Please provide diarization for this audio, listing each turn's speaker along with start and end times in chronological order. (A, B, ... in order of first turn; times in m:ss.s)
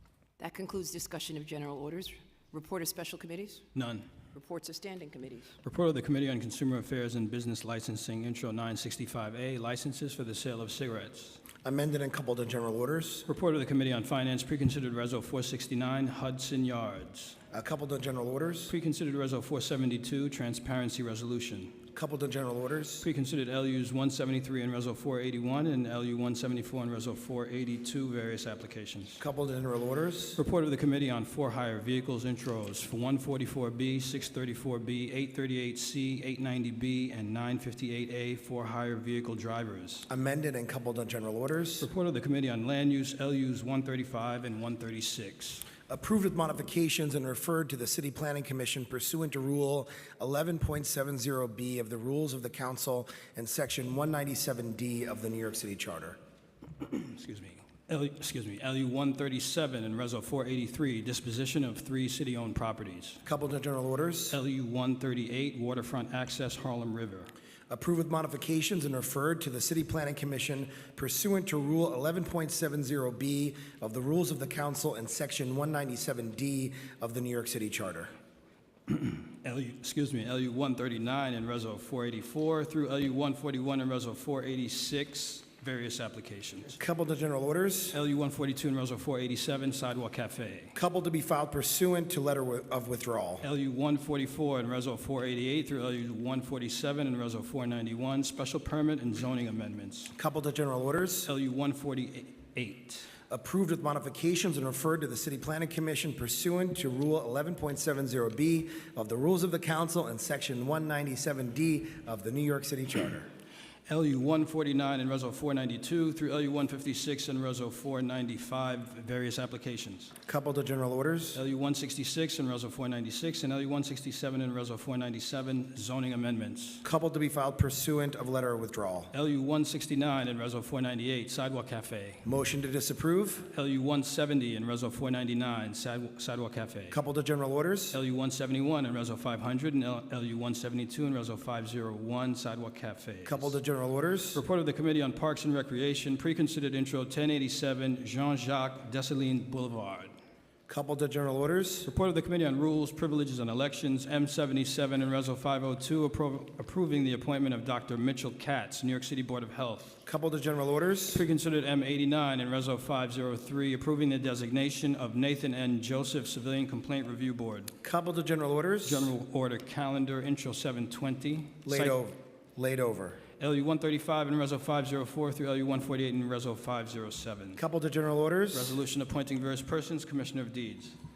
0:00.4-0:03.6 A
0:03.7-0:04.2 B
0:04.3-0:05.5 A
0:05.6-0:11.4 B
0:11.6-0:13.2 C
0:13.3-0:17.4 B
0:17.5-0:18.7 C
0:18.7-0:21.8 B
0:21.9-0:23.1 C
0:23.0-0:29.2 B
0:29.2-0:30.4 C
0:30.4-0:40.1 B
0:40.1-0:41.9 C
0:41.8-0:45.7 B
0:45.9-0:56.2 C
0:56.8-1:03.2 B
1:03.2-1:04.4 C
1:04.3-1:07.3 B
1:07.7-1:18.1 C
1:18.9-1:26.7 B
1:26.8-1:28.0 C
1:27.9-1:30.7 B
1:30.7-1:33.5 C
1:33.4-1:40.1 B
1:40.2-1:41.3 C
1:41.2-1:43.1 B
1:43.3-1:53.3 C
1:53.9-2:00.1 B
2:00.3-2:01.4 C
2:01.3-2:06.8 B
2:06.8-2:09.1 C
2:09.1-2:12.2 B
2:12.2-2:13.5 C
2:13.5-2:17.0 B
2:16.9-2:18.0 C
2:17.9-2:23.6 B
2:23.2-2:24.4 C
2:24.3-2:30.1 B
2:30.7-2:31.9 C
2:31.8-2:40.0 B
2:40.0-2:41.2 C
2:41.1-2:47.7 B
2:47.8-2:49.1 C
2:48.8-2:52.0 B
2:51.6-2:53.2 C
2:53.4-2:57.6 B
2:57.6-2:58.8 C
2:58.5-3:00.9 B